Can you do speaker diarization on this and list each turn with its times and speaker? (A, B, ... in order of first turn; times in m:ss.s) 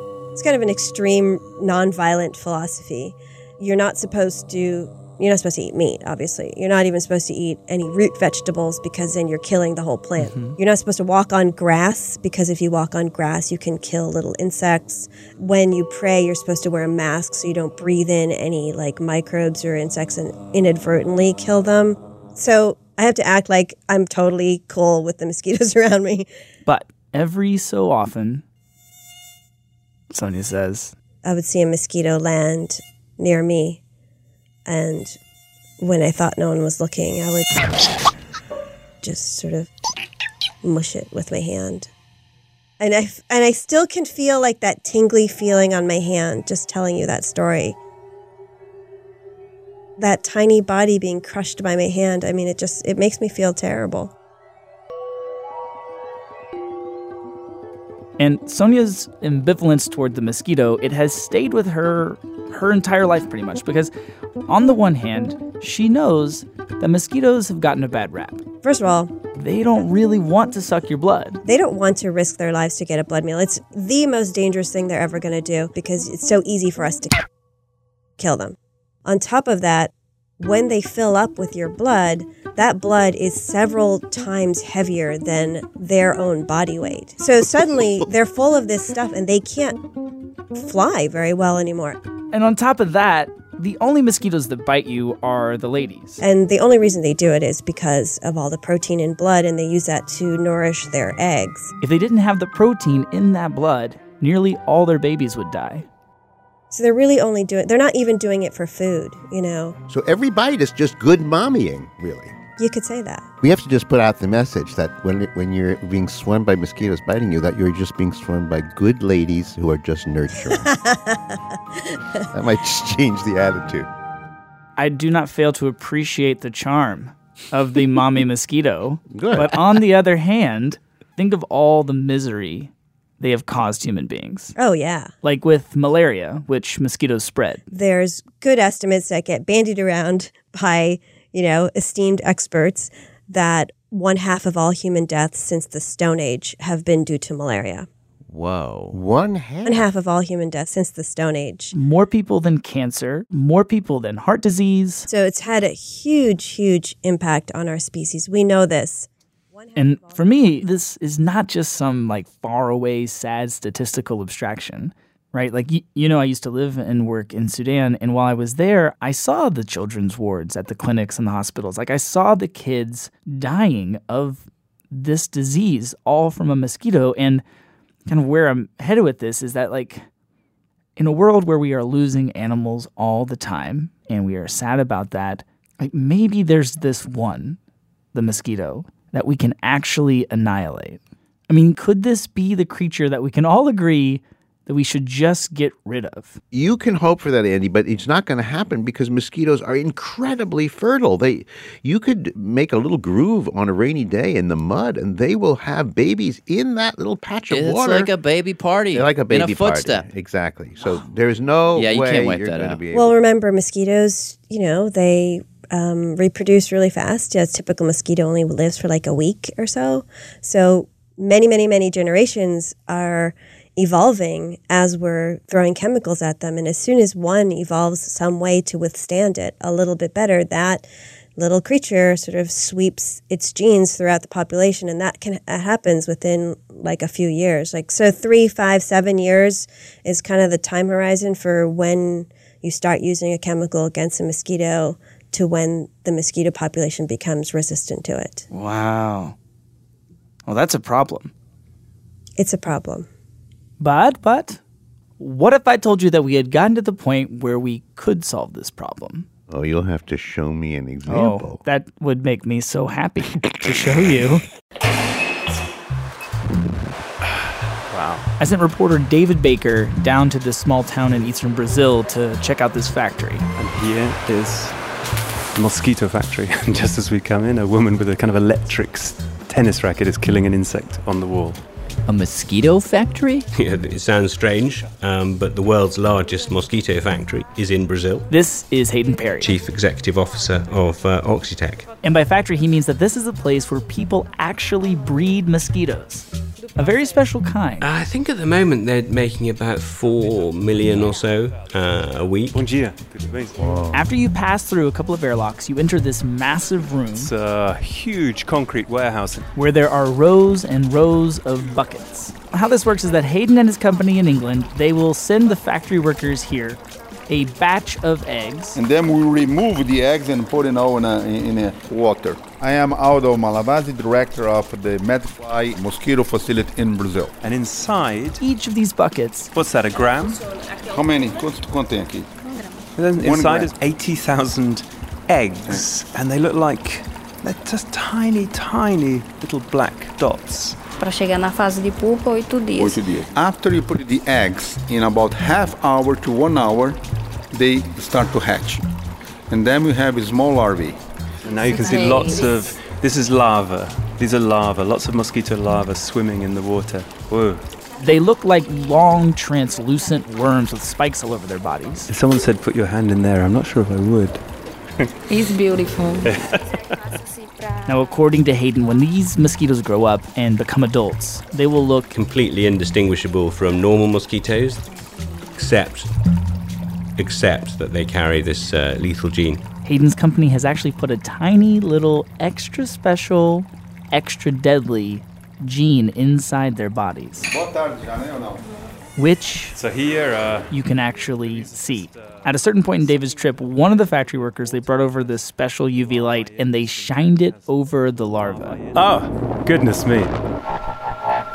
0:00.4-0:26.3 A
0:10.2-0:10.6 B
0:26.7-0:28.4 B
0:30.1-0:30.9 B
0:31.2-0:33.8 A
0:34.7-0:35.2 A
0:35.8-0:37.5 A
0:39.0-0:39.7 A
0:40.6-0:41.9 A
0:42.8-0:47.8 A
0:50.0-0:54.1 A
0:58.2-1:03.9 B
1:04.5-1:08.4 B
1:08.6-1:09.1 A
1:09.4-1:11.4 B
1:11.5-1:17.2 A
1:18.2-1:29.8 A
1:30.6-1:32.0 A
1:32.3-1:36.2 B
1:36.2-1:41.7 A
1:41.8-1:45.9 B
1:46.7-1:49.8 A
1:49.9-1:52.4 C
1:52.6-1:53.3 A
1:53.4-2:00.8 C
2:00.6-2:01.4 A
2:02.3-2:03.9 C
2:04.8-2:14.6 B
2:09.1-2:09.6 C
2:14.6-2:15.1 A
2:15.2-2:17.6 B
2:17.7-2:27.9 A
2:28.3-2:29.0 D
2:28.9-2:29.9 C
2:29.6-2:31.7 A
2:31.7-2:35.1 B
2:35.1-2:40.2 A
2:39.8-2:57.4 B
2:58.1-3:00.0 B
3:01.0-3:07.6 B
3:08.1-3:16.4 B
3:16.5-3:28.1 C
3:27.5-3:30.1 D
3:28.9-3:33.2 C
3:31.8-3:32.8 D
3:32.9-4:08.4 A
4:08.5-4:09.4 B
4:10.5-4:11.3 B
4:12.4-4:13.1 A
4:13.8-4:14.6 B
4:15.2-4:19.3 B
4:19.5-4:21.6 C
4:21.1-4:24.4 B
4:27.9-4:28.2 E
4:28.4-4:33.5 B
4:33.6-4:34.8 E
4:35.6-4:41.6 E
4:42.1-4:43.4 D
4:43.5-4:48.3 F
4:48.3-4:49.5 B
4:49.4-4:51.9 F
4:52.0-4:57.9 B
4:57.8-5:02.6 F
5:02.5-5:03.8 E
5:03.9-5:07.3 B
5:07.2-5:09.5 E
5:09.6-5:18.8 B
5:18.8-5:27.3 G
5:27.4-5:28.4 E
5:28.4-5:29.5 B
5:29.5-5:30.4 E
5:30.9-5:32.3 G
5:33.0-5:40.8 E
5:33.2-5:33.7 G
5:41.0-5:43.0 H
5:42.8-5:47.0 G
5:47.5-5:48.8 G
5:49.5-5:51.0 G
5:51.4-5:57.6 E
5:51.6-5:52.7 H
5:58.0-6:02.1 B
6:02.1-6:04.4 E
6:05.3-6:06.3 H
6:06.2-6:06.6 E
6:07.9-6:12.1 B
6:12.1-6:14.9 F
6:15.6-6:16.1 F
6:17.2-6:19.6 F
6:19.8-6:27.5 B
6:27.4-6:28.6 G
6:29.2-6:29.8 B
6:29.7-6:30.7 E
6:30.7-6:38.9 B
6:31.4-6:32.5 E
6:36.4-6:37.1 E
6:38.7-6:40.4 E